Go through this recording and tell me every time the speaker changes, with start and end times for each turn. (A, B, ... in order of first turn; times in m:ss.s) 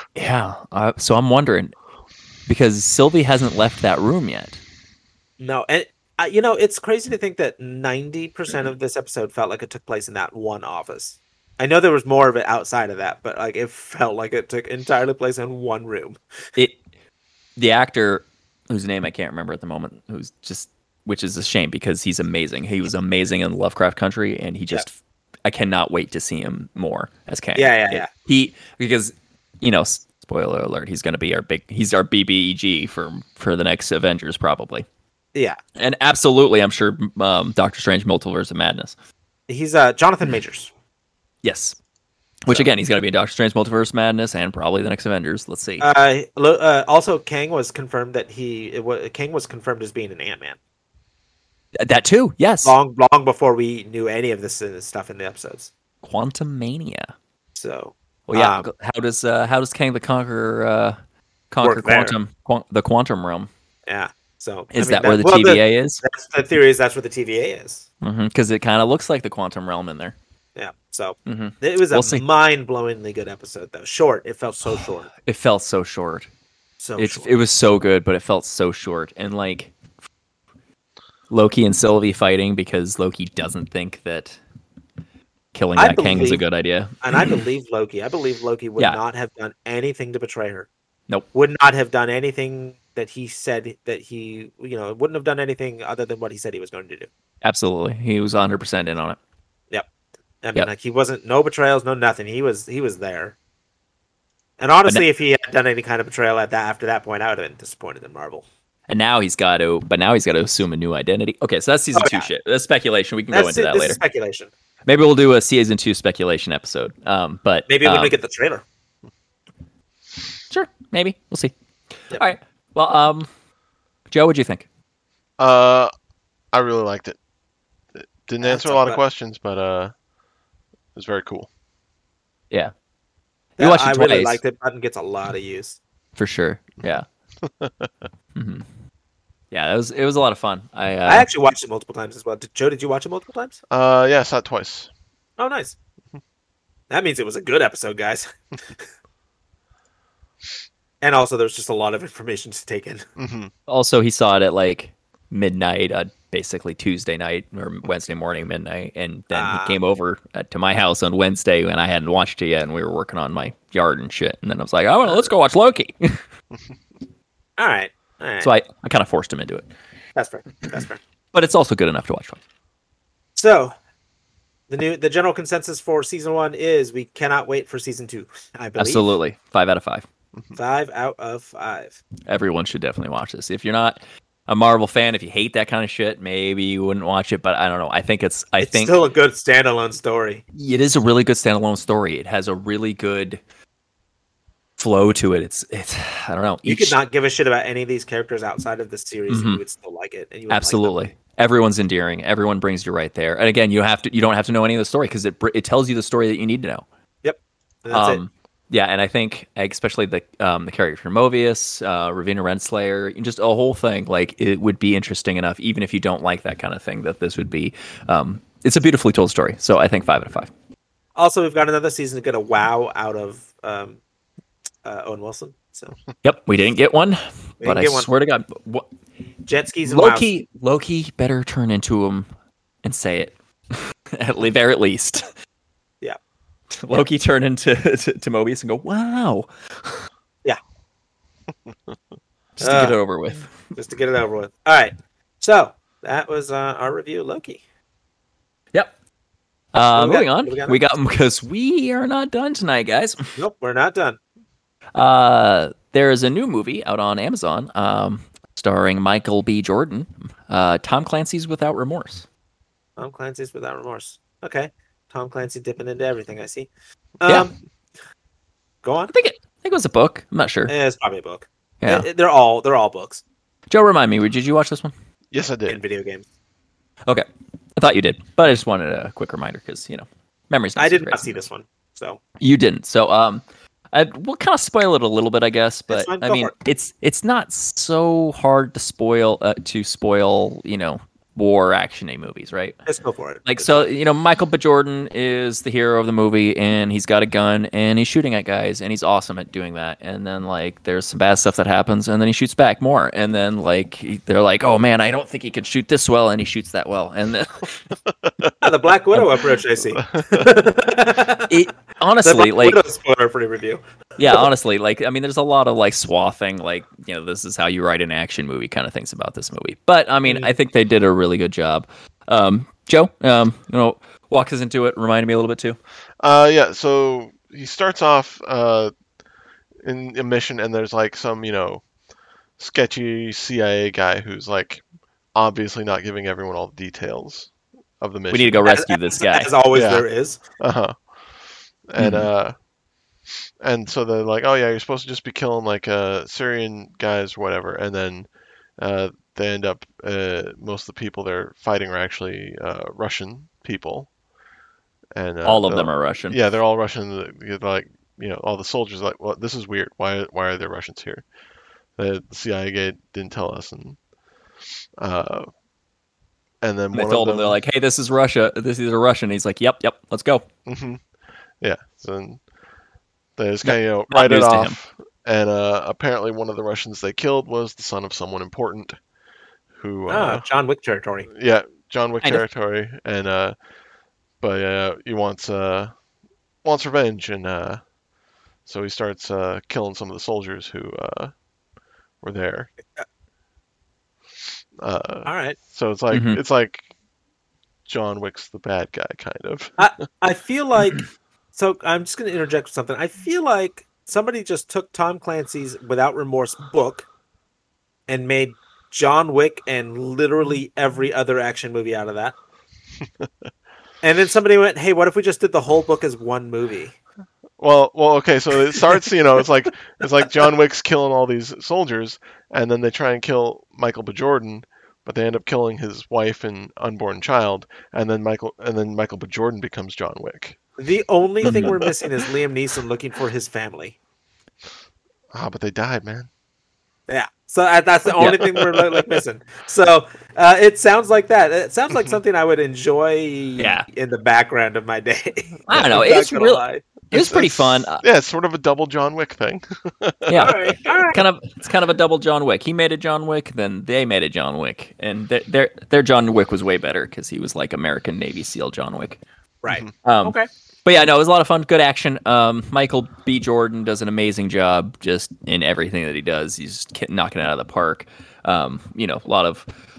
0:00.2-0:01.8 A
0:02.5-0:04.6 A
0:05.4-0:16.2 B
0:17.6-0:34.9 A
0:27.6-0:28.1 B
0:35.8-0:39.0 A
0:39.5-0:40.7 B
0:41.4-0:41.8 A
0:42.4-0:45.9 A
0:45.8-0:50.6 B
0:51.8-0:52.8 A
0:52.6-0:55.7 B
0:56.0-0:57.1 A
0:57.6-0:58.7 B
0:58.3-1:01.0 A
1:01.5-1:03.5 A
1:01.6-1:02.2 B
1:03.9-1:07.9 B
1:04.7-1:06.0 A
1:08.0-1:10.2 A
1:10.6-1:15.1 B
1:11.3-1:12.2 A
1:15.2-1:16.3 A
1:16.8-1:17.3 B
1:17.0-1:19.7 A
1:21.3-1:24.4 A
1:25.5-1:27.4 A
1:25.8-1:26.4 B
1:27.0-1:30.7 B
1:31.3-1:37.1 B
1:37.4-1:39.2 A
1:40.4-1:43.4 B
1:44.6-1:48.5 B
1:48.9-1:54.0 A
1:51.9-1:52.3 B
1:53.3-1:54.5 B
1:54.9-1:58.1 A
1:57.7-1:58.6 B
2:00.5-2:01.5 A
2:02.1-2:03.3 A
2:04.1-2:04.7 A
2:05.4-2:05.9 C
2:06.5-2:07.2 C
2:08.0-2:09.9 C
2:08.4-2:09.0 B
2:11.0-2:11.5 C
2:13.6-2:15.8 B
2:13.6-2:14.4 A
2:16.2-2:17.1 A
2:17.4-2:17.9 C
2:18.4-2:18.6 A
2:19.5-2:21.3 A
2:21.1-2:23.6 B
2:23.7-2:24.9 C
2:25.4-2:25.8 B
2:26.9-2:28.3 B
2:31.0-2:33.0 B
2:33.2-2:33.5 C
2:33.7-2:46.2 A
2:39.3-2:39.8 B
2:47.6-2:48.5 B
2:48.4-2:49.7 A
2:50.2-2:51.0 B
2:51.3-2:52.4 A
2:53.4-2:53.7 B
2:54.7-2:59.1 B
2:58.8-3:00.1 A
3:00.6-3:02.0 B
3:02.3-3:09.0 A
3:08.6-3:10.4 B
3:10.5-3:13.4 A
3:14.8-3:17.0 A
3:16.7-3:21.1 B
3:19.3-3:19.6 A
3:20.5-3:26.9 A
3:27.2-3:28.2 B
3:27.9-3:40.5 A
3:41.2-3:44.0 B
3:44.8-3:45.9 B
3:46.2-3:48.9 A
3:47.6-3:48.1 B
3:49.5-3:50.3 B
3:49.8-3:52.3 A
3:52.8-3:55.3 A
3:56.8-3:59.5 A
4:02.6-4:03.5 A
4:02.6-4:03.0 B
4:03.8-4:07.6 B
4:09.7-4:13.2 A
4:09.8-4:10.8 B
4:13.4-4:14.2 B
4:15.0-4:22.2 A
4:23.0-4:26.7 B
4:27.2-4:27.5 B
4:28.8-4:29.1 B
4:29.1-4:30.7 A
4:30.7-4:33.2 B
4:33.7-4:34.9 A
4:35.3-4:35.8 C
4:35.7-4:36.3 B
4:37.1-4:41.4 A
4:40.8-4:42.2 B
4:42.4-4:52.9 A
4:45.9-4:46.5 B
4:52.9-4:53.9 B
4:53.4-5:07.8 A
5:08.6-5:11.6 B
5:11.5-5:12.8 A
5:12.2-5:14.4 B
5:14.2-5:25.8 A
5:20.2-5:20.5 B
5:26.2-5:28.9 C
5:29.8-5:31.8 C
5:32.6-5:38.6 C
5:38.3-5:39.5 A
5:38.6-5:40.4 B
5:39.7-5:40.0 C
5:40.6-5:42.6 C
5:42.0-5:42.3 A
5:43.6-5:54.1 C
5:55.1-6:01.2 C
5:55.4-5:56.4 A
6:02.0-6:04.0 C
6:05.0-6:05.5 C
6:06.6-6:07.6 C
6:06.9-6:10.5 A
6:10.7-6:11.0 C
6:11.6-6:12.4 C
6:13.4-6:19.0 C
6:13.6-6:14.8 A
6:19.8-6:20.4 C
6:20.1-6:21.3 B
6:21.3-6:23.6 C
6:24.4-6:25.9 C
6:26.6-6:27.8 C
6:28.7-6:31.3 C
6:32.2-6:32.7 C
6:34.8-6:36.9 C
6:35.3-6:35.6 B
6:36.1-6:36.4 A
6:37.9-6:39.8 C
6:39.8-6:47.1 B
6:48.1-6:52.4 B
6:54.0-6:57.0 B
6:57.6-7:10.6 C
7:10.8-7:14.0 B
7:11.4-7:11.8 A
7:11.5-7:11.9 C
7:15.3-7:16.3 C
7:17.1-7:26.8 B
7:18.2-7:18.5 A
7:23.6-7:23.9 A
7:25.7-7:28.0 A
7:27.1-7:30.8 C
7:30.3-7:39.2 A
7:30.4-7:31.2 B
7:39.6-7:40.5 B
7:40.0-7:49.7 A